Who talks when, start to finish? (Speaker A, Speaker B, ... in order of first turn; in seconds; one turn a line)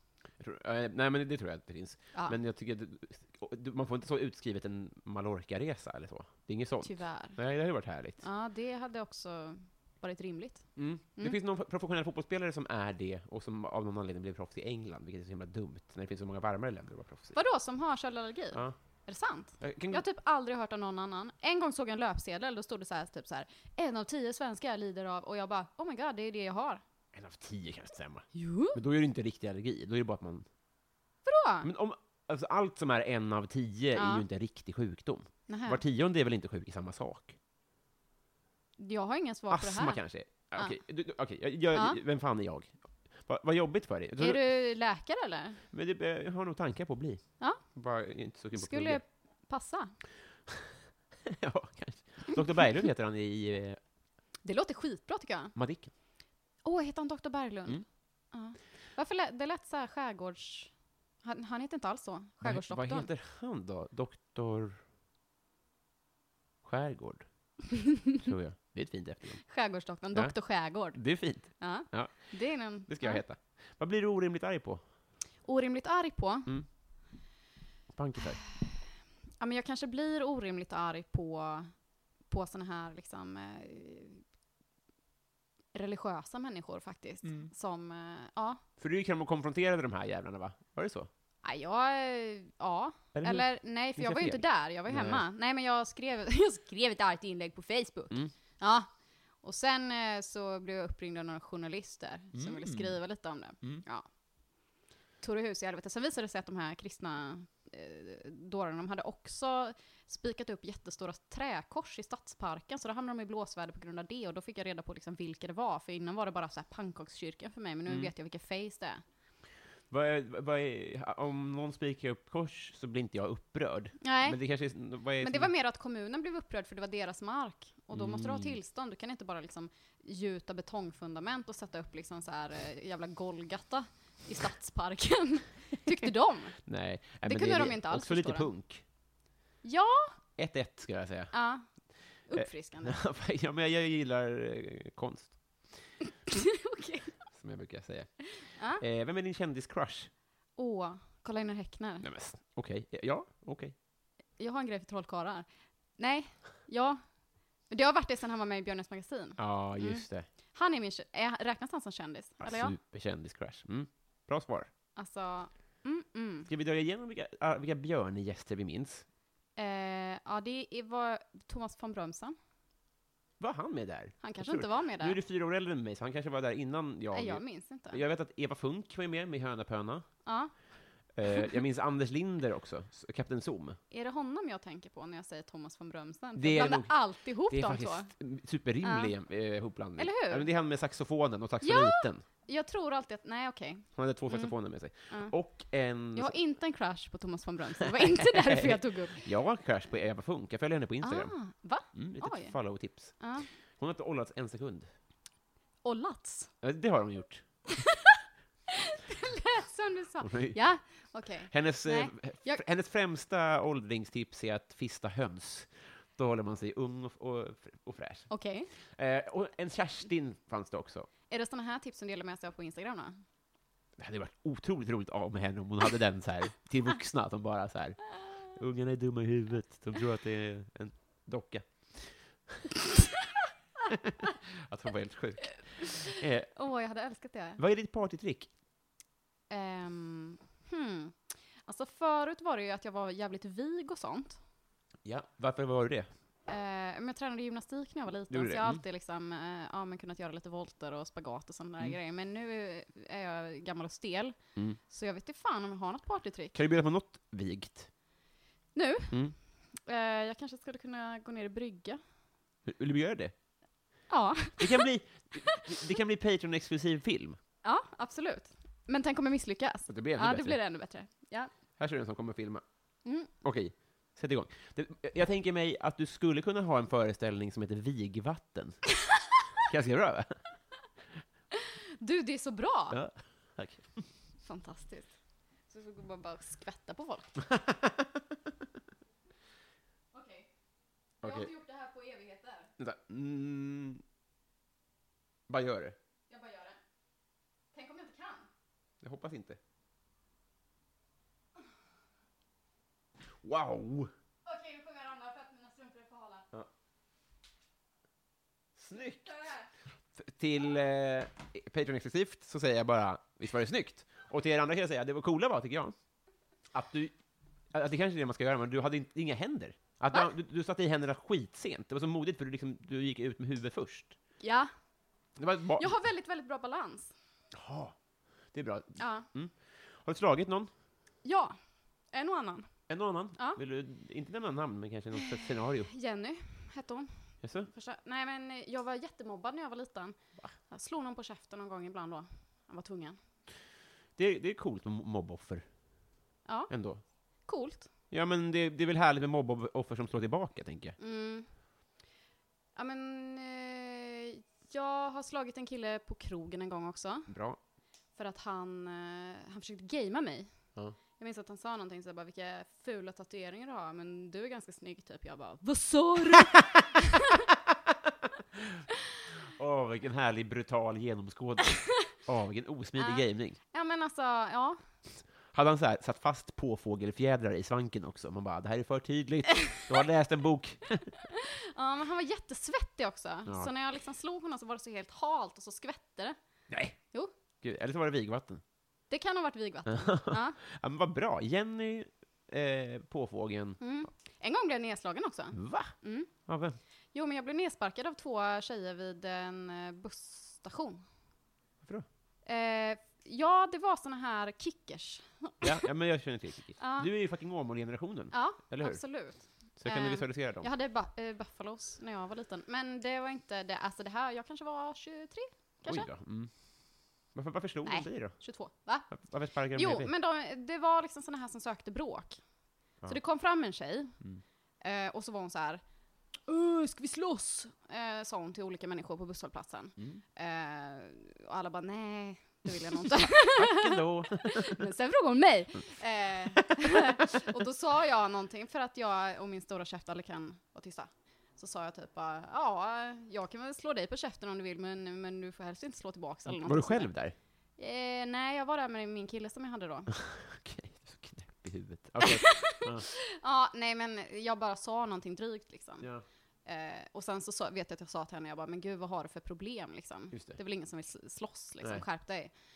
Speaker A: 0.4-8.2
Speaker B: 6.8-7.4
Speaker B: 8.2-10.7
Speaker A: 10.8-17.4
Speaker B: 17.3-26.8
Speaker A: 19.6-20.0
Speaker A: 27.1-30.5
Speaker B: 28.3-28.8
Speaker B: 31.2-31.7
Speaker A: 31.6-37.4
Speaker B: 34.0-34.2
Speaker B: 35.5-35.8
Speaker B: 38.8-40.0
Speaker A: 39.5-44.4
Speaker B: 44.2-45.6
Speaker A: 45.7-49.0
Speaker B: 48.6-49.9
Speaker A: 51.3-53.8
Speaker B: 54.5-55.5
Speaker A: 55.5-55.9
Speaker B: 56.6-60.7
Speaker B: 61.2-63.1
Speaker A: 62.4-64.8
Speaker A: 66.6-67.2
Speaker B: 67.8-68.1
Speaker A: 68.2-69.5
Speaker B: 69.5-71.0
Speaker A: 70.1-74.8
Speaker B: 71.6-73.2
Speaker B: 75.5-76.5
Speaker A: 77.9-78.4
Speaker B: 79.4-81.7
Speaker B: 82.3-84.2
Speaker B: 85.7-88.6
Speaker A: 87.2-87.5
Speaker A: 88.8-91.1
Speaker B: 91.4-98.9
Speaker A: 93.2-95.2
Speaker B: 99.4-104.1
Speaker A: 102.3-103.0
Speaker B: 105.2-119.0
Speaker A: 119.9-125.5
Speaker B: 124.0-124.4
Speaker B: 125.2-136.6
Speaker A: 127.9-128.6
Speaker A: 136.7-138.8
Speaker B: 137.2-138.5
Speaker B: 139.6-140.2
Speaker A: 140.4-141.4
Speaker B: 141.3-141.7
Speaker B: 142.3-143.0
Speaker A: 142.3-145.9
Speaker B: 146.3-147.1
Speaker A: 147.3-150.1
Speaker B: 148.5-148.8
Speaker B: 150.6-152.1
Speaker A: 152.0-153.7
Speaker B: 154.4-155.5
Speaker B: 156.0-157.0
Speaker B: 157.7-162.8
Speaker A: 159.4-160.3
Speaker A: 162.4-164.7
Speaker B: 165.0-166.5
Speaker A: 166.5-169.1
Speaker B: 169.6-172.4
Speaker A: 173.4-180.1
Speaker B: 174.2-175.2
Speaker B: 177.1-178.0
Speaker B: 180.3-180.5
Speaker A: 181.2-183.8
Speaker B: 183.9-188.1
Speaker A: 186.4-192.2
Speaker B: 188.8-189.1
Speaker B: 190.0-190.5
Speaker B: 191.6-194.5
Speaker A: 194.0-196.4
Speaker B: 196.2-199.3
Speaker A: 198.2-201.3
Speaker B: 201.0-202.6
Speaker A: 201.9-204.9
Speaker B: 203.2-203.5
Speaker B: 205.8-206.5
Speaker A: 206.6-207.4
Speaker B: 207.8-208.2
Speaker B: 208.9-212.6
Speaker A: 210.2-210.6
Speaker A: 211.5-221.1
Speaker B: 218.3-218.7
Speaker B: 221.3-223.2
Speaker A: 224.0-232.8
Speaker A: 233.9-236.5
Speaker B: 235.8-237.6
Speaker A: 237.6-238.5
Speaker B: 239.5-244.4
Speaker A: 245.1-246.1
Speaker B: 246.5-254.4
Speaker A: 248.3-248.8
Speaker B: 254.9-256.6
Speaker A: 256.5-257.9
Speaker B: 258.8-259.1
Speaker B: 259.9-262.0
Speaker A: 262.7-263.3
Speaker B: 264.1-264.9
Speaker A: 264.6-267.4
Speaker B: 267.6-271.5
Speaker A: 269.9-270.6
Speaker A: 271.8-272.6
Speaker B: 273.1-273.3
Speaker A: 273.4-278.9
Speaker A: 279.6-280.4
Speaker B: 281.6-283.0
Speaker A: 282.9-284.0
Speaker B: 284.4-285.1
Speaker B: 285.7-287.4
Speaker A: 287.4-288.1
Speaker B: 290.1-290.5
Speaker A: 291.2-291.5
Speaker B: 291.2-292.7
Speaker A: 292.8-294.0
Speaker A: 295.5-295.9
Speaker B: 296.3-296.8
Speaker B: 297.7-298.5
Speaker A: 299.0-299.6
Speaker A: 303.4-304.1
Speaker B: 304.4-306.5
Speaker A: 308.8-309.5
Speaker A: 310.2-315.9
Speaker A: 316.7-317.1
Speaker A: 317.7-324.2
Speaker B: 324.4-324.7
Speaker A: 325.4-325.9
Speaker B: 325.8-327.1
Speaker A: 327.5-327.9
Speaker A: 328.5-330.7
Speaker B: 329.0-329.3
Speaker B: 331.2-331.6
Speaker B: 332.1-332.7
Speaker A: 332.9-335.9
Speaker B: 335.9-337.1
Speaker A: 337.4-337.7
Speaker B: 337.7-340.2
Speaker B: 340.7-343.2
Speaker A: 344.2-345.7
Speaker B: 346.5-346.7
Speaker A: 346.7-347.0
Speaker B: 347.5-347.9
Speaker A: 348.1-351.0
Speaker B: 351.0-351.5
Speaker B: 352.8-357.3
Speaker A: 357.3-357.6
Speaker B: 358.2-360.5
Speaker B: 361.2-367.4
Speaker A: 368.6-368.8
Speaker A: 369.5-373.6
Speaker B: 373.0-374.8
Speaker A: 375.5-381.2
Speaker B: 381.3-386.4
Speaker A: 386.7-387.0
Speaker A: 387.6-388.6
Speaker B: 389.1-390.6
Speaker A: 389.9-393.8
Speaker B: 393.8-396.3
Speaker A: 395.5-395.9
Speaker A: 396.5-396.8
Speaker B: 397.1-401.0
Speaker B: 402.4-405.8
Speaker A: 405.6-409.2
Speaker B: 406.8-407.1
Speaker B: 408.3-416.1
Speaker A: 409.8-410.7
Speaker A: 415.9-416.5
Speaker A: 417.3-418.4
Speaker B: 417.9-419.1
Speaker A: 419.1-420.1
Speaker B: 419.7-422.4
Speaker B: 423.1-424.1
Speaker B: 424.8-425.8
Speaker B: 426.5-447.1
Speaker A: 433.1-434.9
Speaker A: 446.5-447.4
Speaker B: 447.8-450.1
Speaker A: 450.1-453.1
Speaker B: 452.2-456.1
Speaker B: 456.6-462.5
Speaker A: 460.3-460.6